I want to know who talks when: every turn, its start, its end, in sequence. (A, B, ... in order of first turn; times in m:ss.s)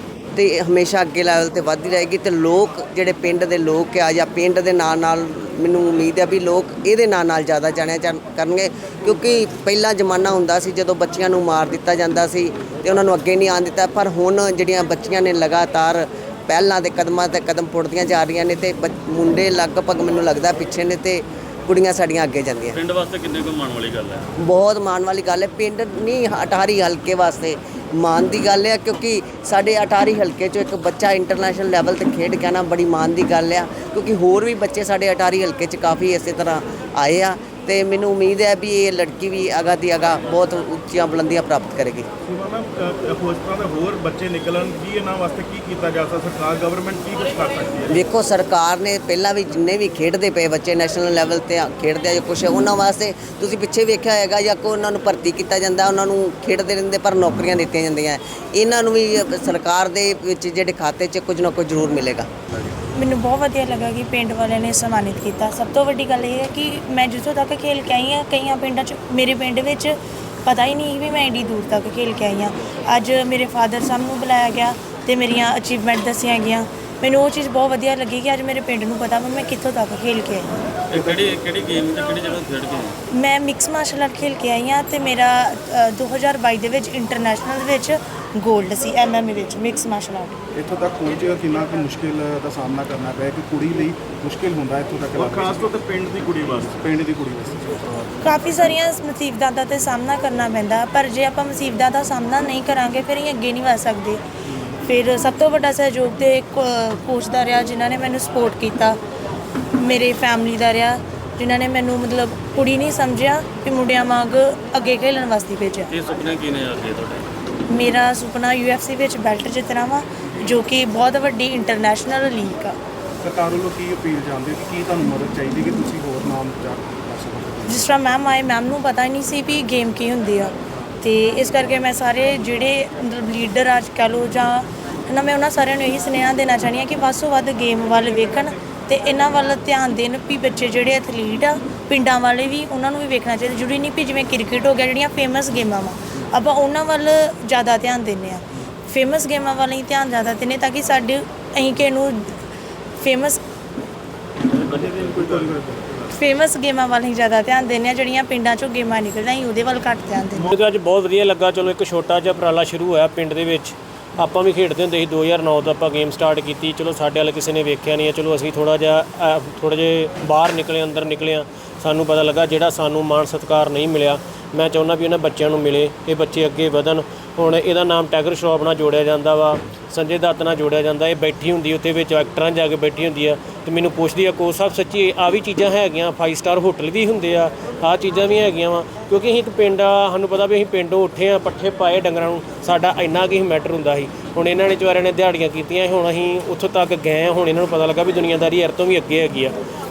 0:00.4-0:22.8 A
0:22.7-0:24.3 B
0:24.4-0:42.1 A
0:42.2-0:48.0 C
0:47.9-1:02.3 A
1:02.9-1:20.5 D
1:20.9-1:23.0 B
1:20.9-1:21.3 E
1:23.1-1:30.3 D
1:30.6-1:35.7 E
1:35.2-1:36.9 C
1:36.7-1:38.1 E
1:38.3-1:44.2 D
1:44.9-1:49.0 D
1:49.8-1:55.9 D
1:55.9-1:57.3 B
1:57.8-2:02.7 D
2:03.2-2:07.9 E
2:07.7-2:10.5 D
2:11.0-2:32.3 D
2:33.0-2:33.4 D
2:34.6-2:36.1 C
2:35.1-2:35.5 B
2:36.2-2:40.4 D
2:40.4-3:19.5 F